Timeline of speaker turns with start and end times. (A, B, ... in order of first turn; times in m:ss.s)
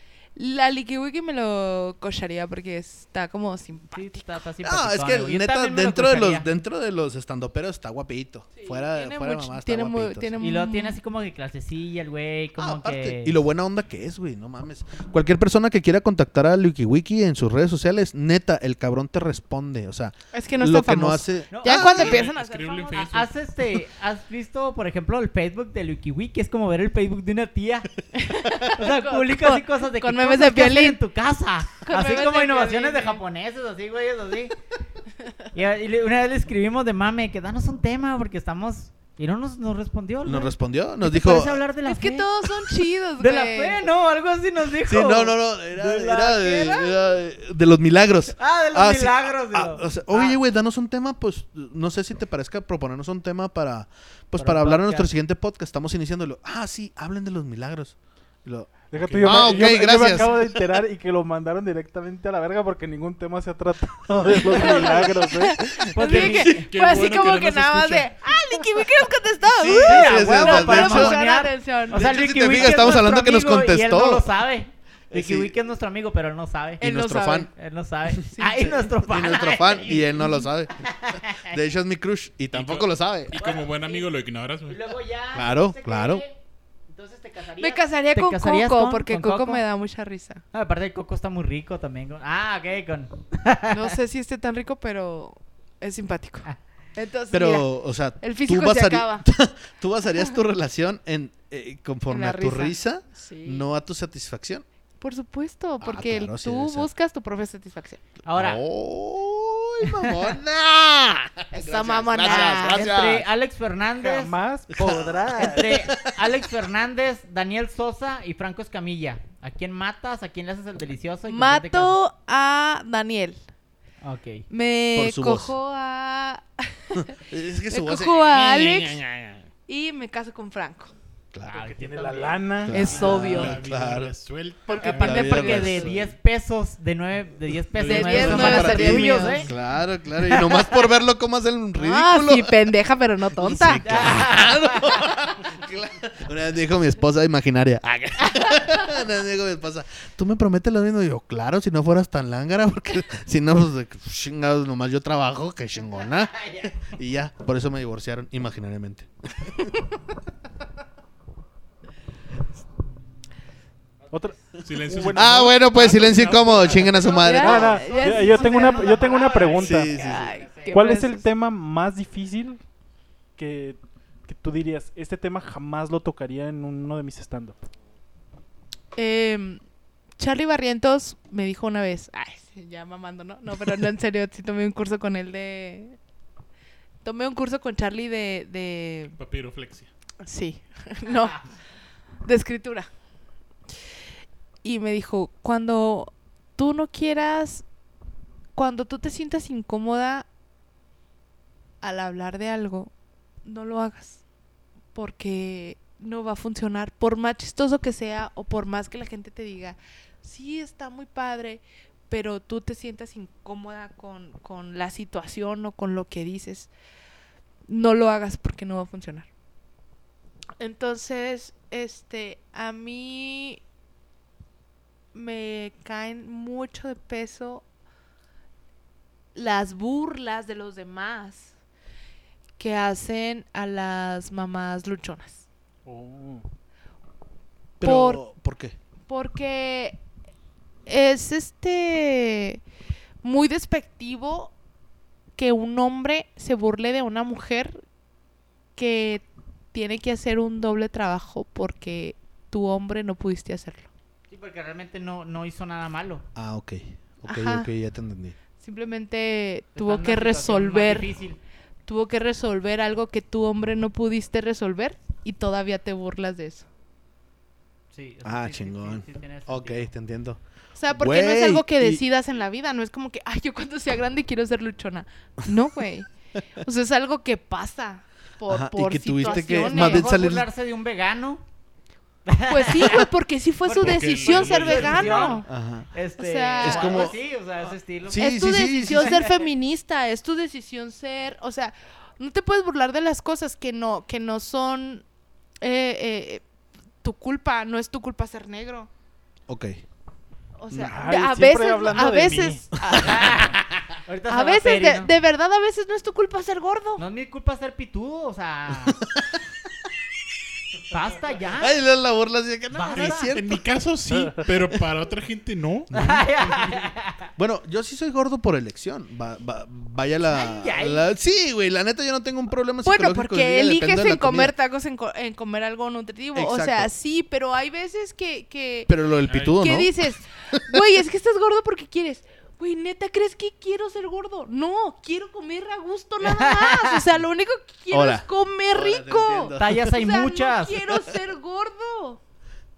0:00.4-0:04.3 A
0:03.9-0:06.5 B
0:04.6-0:10.4 C
0:08.6-0:11.0 A
0:10.4-0:13.4 B
0:12.6-0:22.2 C
0:20.3-0:23.1 A
0:21.5-0:22.2 B
0:21.9-0:23.3 D
0:22.9-0:27.9 B
0:28.2-0:31.0 A
0:28.7-0:34.6 B
0:31.8-0:33.2 A
0:35.5-0:42.3 B
0:40.2-0:41.6 C
0:41.8-0:43.8 A
0:43.2-0:46.9 B
0:44.9-1:00.7 C
0:48.4-0:50.4 B
0:54.4-0:55.1 B
0:58.9-1:05.6 E
0:59.0-1:00.1 D
1:04.4-1:05.2 B
1:04.4-1:13.1 A
1:05.6-1:06.6 C
1:05.9-1:06.6 B
1:06.1-1:08.1 D
1:09.6-1:11.2 C
1:09.6-1:16.8 B
1:11.9-1:14.3 C
1:15.1-1:15.5 C
1:16.8-1:17.5 C
1:16.8-1:17.5 A
1:17.5-1:21.6 B
1:18.1-1:20.8 C
1:18.4-1:18.8 A
1:21.3-1:23.4 C
1:22.5-1:24.9 D
1:23.3-1:24.1 B
1:24.7-1:26.4 B
1:25.3-1:26.2 C
1:26.9-1:29.6 B
1:27.6-1:30.4 A
1:30.5-1:33.9 B
1:33.7-1:37.7 A
1:37.3-1:44.6 C
1:38.2-1:39.2 A
1:42.1-1:43.6 A
1:45.0-1:48.0 A
1:45.8-1:46.9 C
1:48.2-1:48.6 B
1:48.4-1:53.3 C
1:51.5-1:52.9 A
1:52.2-1:54.4 B
1:54.0-1:55.9 E
1:54.7-1:56.5 C
1:55.4-2:02.0 B
2:01.3-2:03.4 A
2:04.0-2:04.5 B
2:04.5-2:07.1 A
2:05.0-2:05.6 C
2:07.0-2:09.5 C
2:07.7-2:09.0 A
2:09.7-2:10.9 A
2:11.3-2:11.6 C
2:11.4-2:13.0 B
2:11.6-2:13.5 E
2:12.6-2:14.1 C
2:12.7-2:13.6 A
2:13.2-2:15.4 D
2:14.7-2:15.9 A
2:14.8-2:19.5 B
2:14.8-2:16.1 C
2:17.7-2:18.9 D
2:17.8-2:19.5 A
2:18.0-2:22.6 C
2:20.2-2:20.8 B
2:21.8-2:24.1 A
2:23.4-2:39.7 C
2:23.8-2:25.0 B
2:35.9-2:36.8 B
2:44.0-2:44.3 B
2:44.1-2:45.5 E
2:44.6-2:47.1 D
2:45.1-2:47.8 C
2:46.9-2:50.9 B
2:47.2-2:49.2 A
2:47.2-2:50.0 E
2:49.6-2:50.4 C
2:49.9-2:51.2 A
2:50.7-2:52.6 E
2:53.4-2:57.6 E
2:59.0-2:59.6 A
3:00.2-3:06.0 A
3:07.0-3:09.2 A
3:09.2-3:09.9 D
3:10.2-3:11.5 A
3:12.2-3:12.9 A
3:14.6-3:17.6 A
3:18.6-3:20.3 A
3:21.8-3:22.9 A
3:23.4-3:24.2 A
3:24.9-3:36.7 A
3:37.7-3:39.3 A
3:40.6-3:43.6 A
3:45.1-3:47.6 A
3:49.4-3:51.5 A
3:52.6-3:55.5 A
3:55.8-3:56.4 E
3:57.8-3:58.8 C
3:57.8-3:58.2 A
3:59.1-4:00.0 A
4:00.9-4:02.6 A
4:03.2-4:04.5 A
4:05.4-4:07.8 A
4:08.8-4:13.9 A
4:14.3-4:16.2 B
4:16.4-4:18.4 C
4:17.3-4:17.7 A
4:18.6-4:21.1 A
4:19.8-4:21.4 B
4:21.9-4:26.7 A
4:27.9-4:29.9 B
4:28.2-4:32.0 C
4:30.8-4:36.1 A
4:36.6-4:40.1 A
4:38.5-4:40.5 C
4:39.2-4:41.4 B
4:42.3-4:43.1 B
4:42.5-4:45.5 A
4:43.7-4:45.4 D
4:43.8-4:49.4 B
4:45.5-4:45.9 C
4:46.2-4:47.1 A
4:46.6-4:47.2 C
4:48.1-4:49.2 C
4:48.1-4:55.0 A
4:55.6-4:56.4 A
4:57.0-4:58.9 A
4:59.5-4:59.8 C
5:00.6-5:03.4 A
5:00.8-5:02.7 E
5:02.9-5:03.5 C
5:02.9-5:05.1 B
5:04.3-5:07.0 A
5:07.0-5:09.0 B
5:08.8-5:09.4 C
5:10.9-5:11.8 B
5:11.6-5:13.6 C
5:12.7-5:13.3 B
5:12.9-5:15.9 D
5:15.9-5:16.3 C
5:15.9-5:17.3 B
5:17.4-5:24.5 C
5:20.3-5:21.0 B
5:22.8-5:28.9 A
5:26.4-5:26.9 C
5:28.9-5:29.9 C
5:29.3-5:29.6 D
5:29.4-5:42.2 A
5:30.5-5:30.8 C
5:36.2-5:37.0 B
5:37.9-5:40.0 C
5:39.6-5:40.8 B